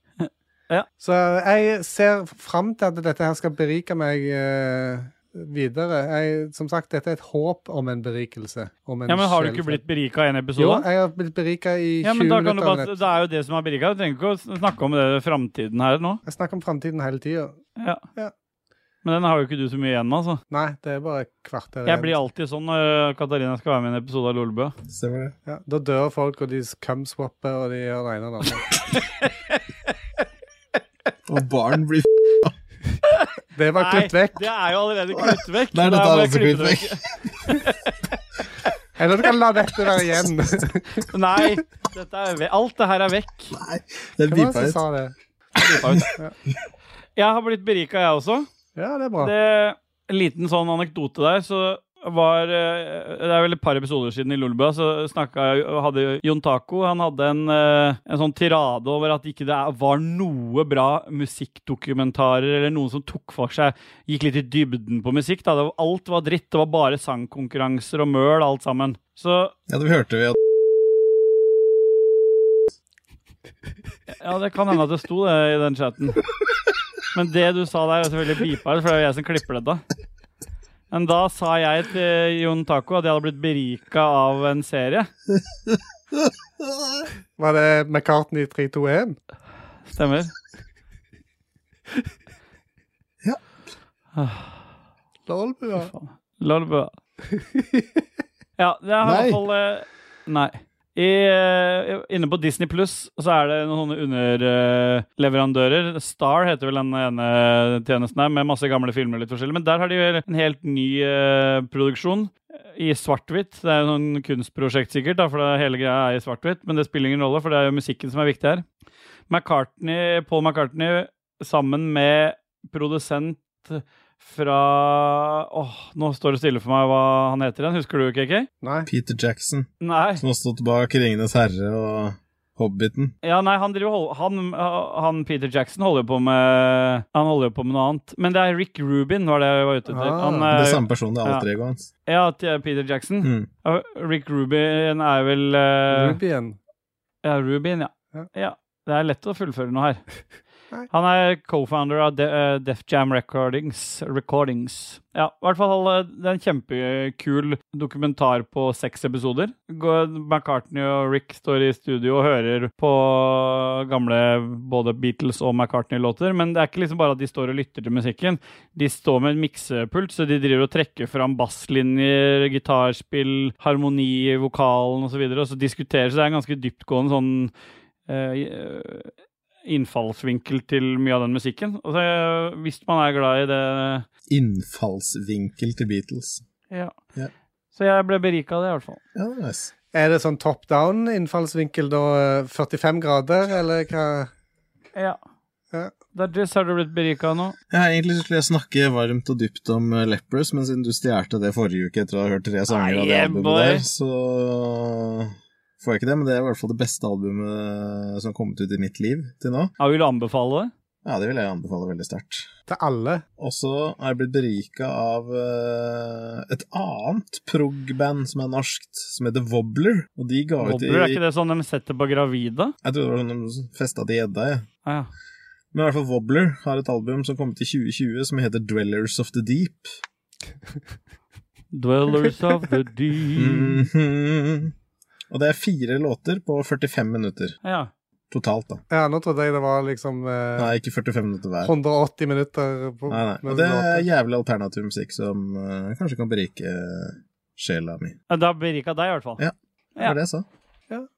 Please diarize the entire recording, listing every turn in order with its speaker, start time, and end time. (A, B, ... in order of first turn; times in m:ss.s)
0:00.2-0:00.9 A
0:01.0-0:09.8 B
0:09.1-0:10.9 A
0:10.6-0:13.0 B
0:12.0-0:16.2 A
0:16.3-0:17.6 B
0:19.0-0:20.4 A
0:20.5-0:22.2 B
0:21.9-0:24.8 A
0:24.9-0:25.3 C
0:25.5-0:28.6 B
0:28.8-0:29.6 A
0:31.3-0:32.5 C
0:33.1-0:37.8 A
0:33.5-0:34.5 B
0:35.1-0:37.6 C
0:39.0-0:41.6 B
0:41.1-0:43.5 A
0:43.5-0:44.8 C
0:44.3-0:45.1 B
0:45.6-0:46.2 A
0:45.6-0:46.1 C
0:47.2-0:48.5 A
0:48.8-0:49.3 B
0:49.2-1:09.5 A
1:09.7-1:10.4 C
1:14.2-1:16.2 A
1:17.1-1:19.8 A
1:20.9-1:25.1 A
1:26.8-1:27.0 C
1:27.4-1:29.2 B
1:29.9-1:30.3 A
1:34.2-1:34.6 A
1:35.3-1:35.9 B
1:35.8-1:36.9 A
1:37.3-1:38.0 B
1:38.6-1:58.6 A
1:39.0-1:39.4 C
1:59.3-2:08.5 A
2:08.6-2:08.9 B
2:08.9-2:13.1 C
2:09.8-2:10.2 A
2:13.2-2:21.4 A
2:19.9-2:20.5 B
2:20.5-2:21.9 C
2:22.1-2:26.2 A
2:23.2-2:23.5 C
2:25.9-2:26.6 B
2:27.2-2:30.0 A
2:30.9-2:57.5 A
2:58.1-2:59.1 A
2:59.7-3:04.1 A
3:04.3-3:06.4 C
3:07.8-3:09.0 A
3:09.2-3:09.7 C
3:09.9-3:14.3 B
3:16.2-3:17.6 A
3:17.7-3:29.7 C
3:22.7-3:23.8 A
3:29.8-3:30.7 A
3:31.0-3:32.5 C
3:32.7-3:33.2 B
3:33.4-3:41.2 C
3:40.6-3:42.7 A
3:42.8-3:44.7 C
3:45.7-3:50.0 C
3:51.7-3:53.9 A
3:53.4-3:54.7 C
3:55.3-3:57.6 C
3:57.6-3:57.9 A
3:58.3-3:58.8 C
3:58.9-4:00.8 B
4:00.6-4:01.7 C
4:01.6-4:04.1 B
4:03.1-4:08.2 C
4:08.3-4:09.4 A
4:09.4-4:10.4 C